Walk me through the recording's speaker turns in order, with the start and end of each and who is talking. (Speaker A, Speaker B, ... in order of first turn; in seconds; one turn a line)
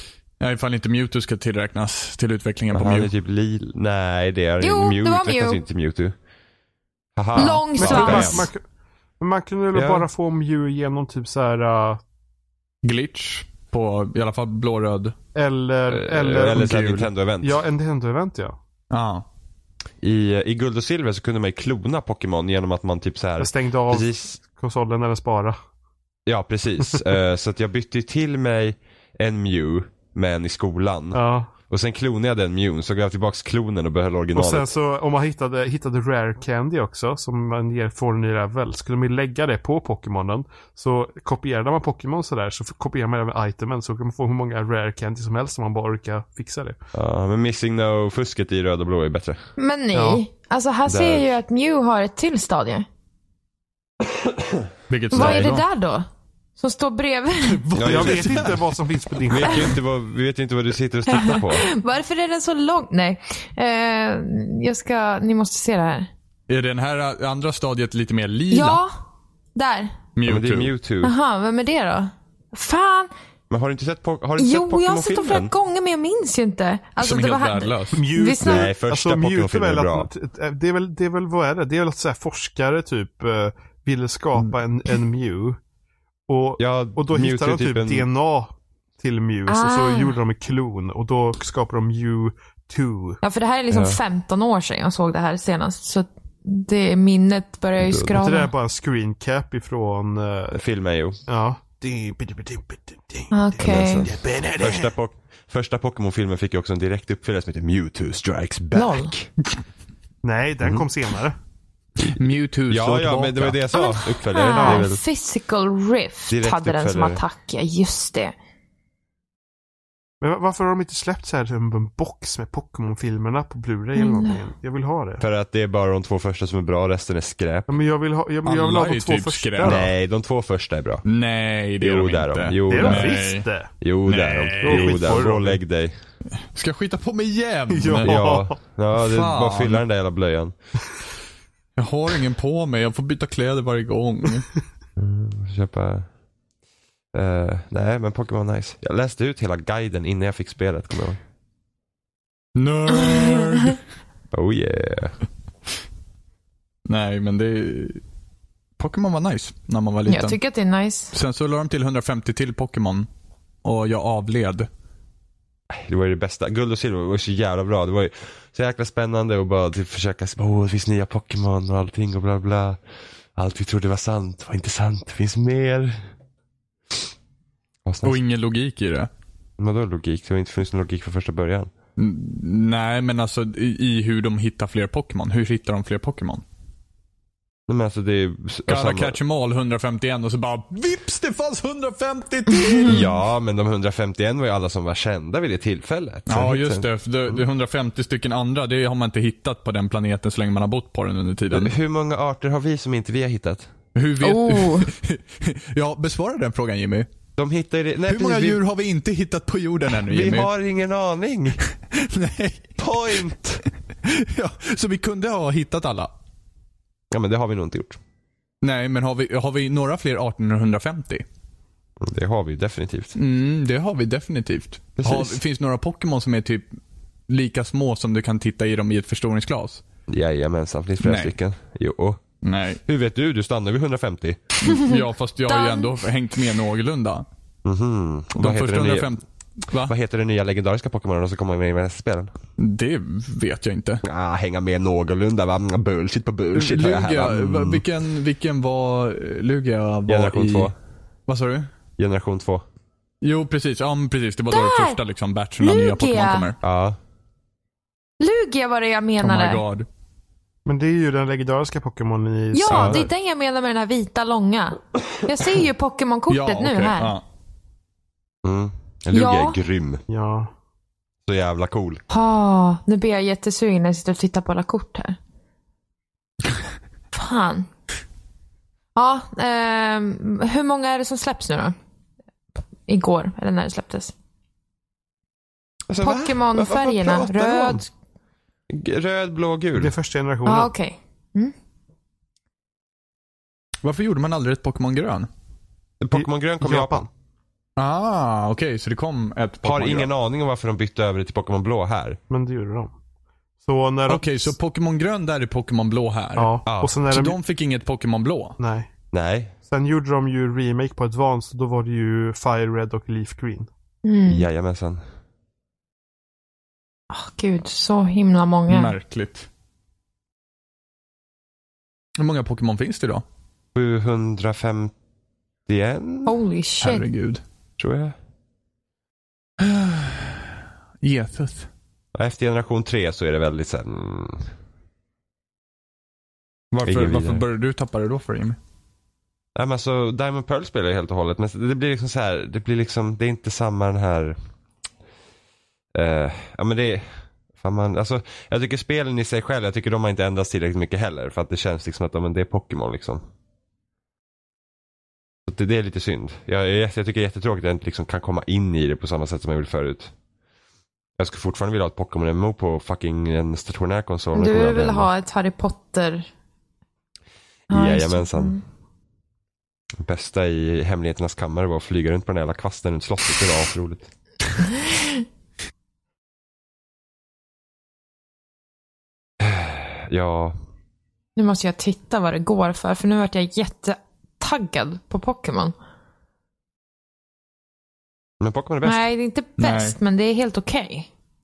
Speaker A: 0.4-3.1
Speaker B: 2.7-6.1
Speaker C: 4.6-5.6
Speaker B: 7.2-8.5
Speaker C: 7.3-8.5
Speaker D: 7.8-8.6
Speaker D: 9.2-12.0
Speaker B: 9.7-10.1
Speaker A: 12.8-15.1
Speaker D: 15.3-16.8
Speaker B: 15.9-17.6
Speaker A: 16.5-17.1
Speaker D: 17.4-18.6
Speaker A: 18.9-19.2
Speaker B: 20.0-24.4
Speaker D: 23.4-25.6
Speaker B: 26.2-34.7
Speaker D: 31.1-31.5
Speaker D: 34.3-46.8
Speaker B: 46.9-49.4
Speaker C: 49.6-52.9
Speaker D: 49.9-50.2
Speaker B: 50.9-51.4
Speaker A: 54.9-55.6
Speaker C: 55.1-56.1
Speaker B: 55.1-55.5
Speaker C: 56.6-57.6
Speaker A: 57.5-58.7
Speaker B: 57.7-58.5
Speaker D: 57.8-59.8
Speaker B: 59.3-61.7
Speaker C: 61.1-66.1
Speaker A: 66.5-68.8
Speaker C: 68.5-69.0
Speaker C: 69.5-70.0
Speaker A: 70.2-70.7
Speaker B: 70.2-71.1
Speaker C: 71.0-73.1
Speaker B: 73.5-75.5
Speaker C: 74.4-78.7
Speaker A: 77.0-78.0
Speaker D: 77.9-85.6
Speaker B: 78.4-80.1
Speaker D: 86.3-93.2
Speaker B: 86.6-88.1
Speaker C: 89.5-90.1
Speaker C: 93.2-98.5
Speaker B: 93.7-94.0
Speaker B: 97.8-98.2
Speaker D: 98.1-100.6
Speaker B: 100.5-101.2
Speaker D: 101.3-104.9
Speaker C: 103.3-104.1
Speaker B: 103.6-109.3
Speaker C: 108.7-109.1
Speaker D: 110.2-111.3
Speaker A: 112.0-113.6
Speaker B: 112.7-115.0
Speaker C: 113.7-118.3
Speaker D: 114.5-114.8
Speaker B: 116.3-117.2
Speaker D: 120.2-125.2
Speaker C: 124.0-124.4
Speaker B: 125.2-127.8
Speaker D: 127.7-129.9
Speaker A: 128.4-129.8
Speaker B: 129.6-131.0
Speaker A: 131.0-133.5
Speaker B: 131.8-133.1
Speaker D: 132.7-133.7
Speaker B: 133.8-135.9
Speaker A: 134.1-135.3
Speaker D: 134.6-135.6
Speaker A: 136.4-138.2
Speaker D: 137.7-138.6
Speaker B: 138.0-140.5
Speaker A: 138.9-139.8
Speaker A: 141.8-144.5
Speaker B: 145.0-146.1
Speaker B: 147.1-151.2
Speaker A: 152.6-153.8
Speaker C: 153.1-153.7
Speaker B: 154.3-155.2
Speaker A: 156.8-158.0
Speaker A: 158.8-160.4
Speaker C: 160.1-161.1
Speaker A: 161.1-163.1
Speaker A: 163.6-164.7
Speaker B: 165.7-172.8
Speaker B: 173.3-175.9
Speaker B: 177.8-178.2
Speaker A: 178.0-179.1
Speaker B: 179.6-181.7
Speaker A: 182.0-186.4
Speaker B: 187.7-189.2
Speaker A: 188.7-193.1
Speaker B: 192.8-197.4
Speaker A: 196.3-201.7
Speaker B: 201.5-203.7
Speaker A: 203.9-207.1
Speaker C: 204.2-204.9
Speaker B: 207.4-208.6
Speaker A: 208.1-210.5
Speaker B: 210.0-211.6
Speaker A: 211.9-212.7
Speaker B: 212.8-213.6
Speaker A: 214.0-216.1
Speaker B: 217.1-218.0
Speaker A: 218.6-221.2
Speaker B: 222.0-223.1
Speaker A: 223.2-226.8
Speaker B: 225.0-225.4
Speaker A: 227.3-229.8
Speaker B: 230.1-232.2
Speaker A: 231.0-231.3
Speaker A: 232.4-232.8
Speaker B: 232.8-234.4
Speaker A: 234.6-237.2
Speaker C: 234.7-235.9
Speaker B: 237.6-239.1
Speaker A: 238.3-239.9
Speaker B: 239.8-242.3
Speaker A: 242.6-244.0
Speaker B: 244.0-247.8
Speaker A: 246.5-250.7
Speaker B: 250.1-250.7
Speaker A: 251.3-251.7
Speaker B: 252.0-252.6
Speaker A: 253.2-256.6
Speaker C: 254.5-255.0
Speaker C: 255.6-256.5
Speaker B: 256.6-257.0
Speaker C: 258.2-259.6
Speaker A: 259.2-259.9
Speaker D: 260.6-263.0
Speaker C: 262.5-267.1
Speaker B: 262.7-263.1
Speaker A: 266.3-267.2
Speaker B: 268.4-270.0
Speaker C: 269.1-269.6
Speaker D: 270.1-270.5
Speaker B: 271.2-272.0
Speaker C: 272.1-275.2
Speaker C: 277.1-277.7
Speaker C: 278.9-281.8
Speaker C: 282.9-284.1
Speaker B: 285.9-287.8
Speaker C: 286.0-287.9
Speaker B: 288.7-289.9
Speaker D: 289.7-290.7
Speaker C: 290.4-291.5
Speaker A: 293.8-295.3
Speaker B: 296.0-297.1
Speaker D: 296.1-297.1
Speaker A: 297.8-300.1
Speaker B: 299.6-302.2
Speaker D: 302.3-302.9
Speaker D: 303.6-304.5
Speaker A: 304.1-306.6
Speaker D: 306.4-307.4
Speaker B: 306.7-307.0
Speaker A: 307.1-308.6
Speaker D: 308.6-308.9
Speaker B: 309.1-309.5
Speaker D: 309.7-313.7
Speaker C: 314.0-314.4
Speaker B: 314.3-315.0
Speaker C: 317.1-318.9
Speaker A: 318.7-319.5
Speaker A: 322.2-323.2
Speaker B: 323.7-324.9
Speaker B: 325.7-326.3
Speaker C: 326.2-327.1
Speaker A: 326.8-327.4
Speaker B: 327.8-328.1
Speaker A: 329.6-330.4
Speaker A: 331.0-331.7
Speaker B: 332.1-334.5
Speaker B: 336.7-337.4
Speaker A: 336.8-338.6
Speaker B: 339.6-344.4
Speaker B: 345.9-347.0
Speaker B: 347.6-353.2
Speaker B: 355.4-360.1
Speaker B: 361.2-365.1
Speaker C: 364.3-366.3
Speaker B: 367.7-368.6
Speaker C: 367.7-368.6
Speaker B: 370.0-374.1
Speaker C: 374.8-375.2
Speaker B: 379.4-380.6
Speaker C: 381.4-385.7
Speaker B: 388.4-389.0
Speaker C: 388.8-391.1
Speaker A: 389.6-389.9